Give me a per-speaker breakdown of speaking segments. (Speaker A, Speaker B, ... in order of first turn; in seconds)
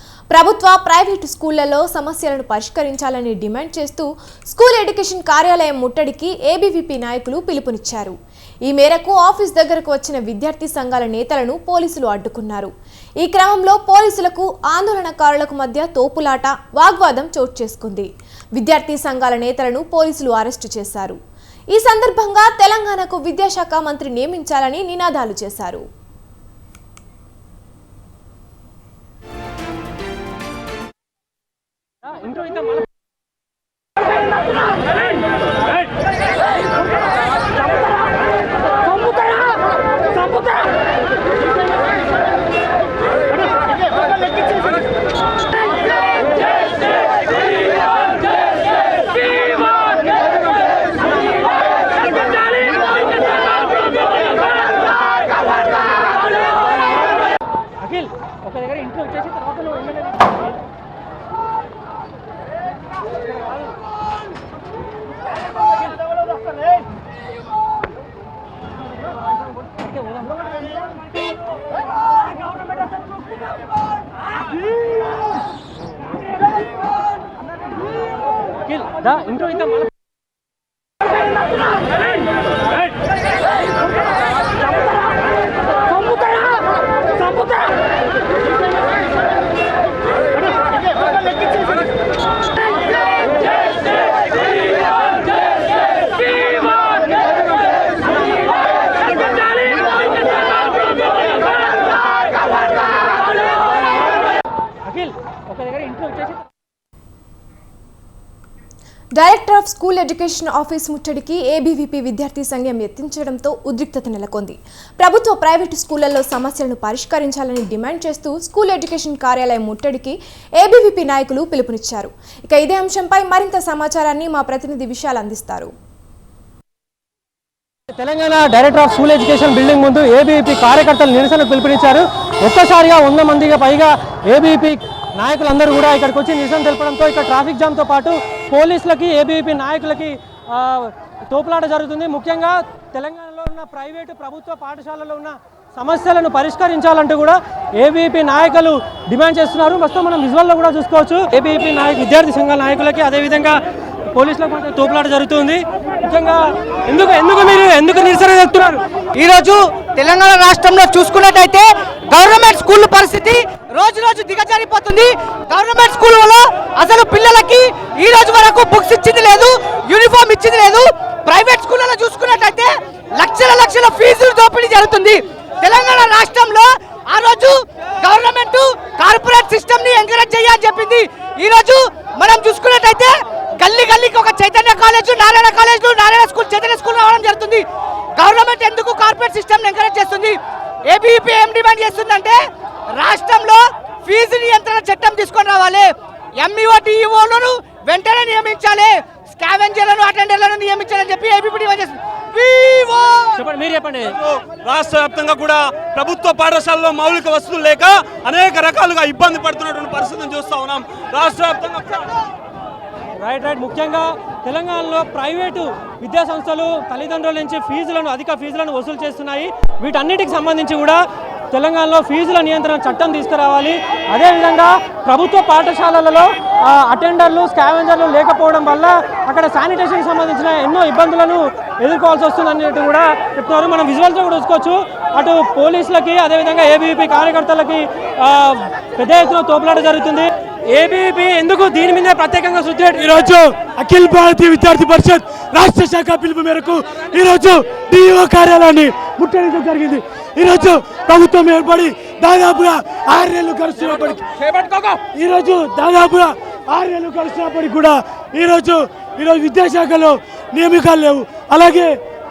Speaker A: 0.3-8.1, 8.7-21.2, 21.7-25.8, 109.2-125.7
Speaker B: 32.1-32.8, 57.8-60.4, 78.7-79.9, 104.8-106.5, 128.0-153.6, 154.1-158.8, 203.3-204.2, 213.2-243.0
Speaker C: 159.1-187.6, 188.2-190.3, 190.9-192.4, 192.9-203.3
Speaker D: 204.3-212.1, 254.6-254.9
Speaker E: 243.0-254.2, 255.1-262.0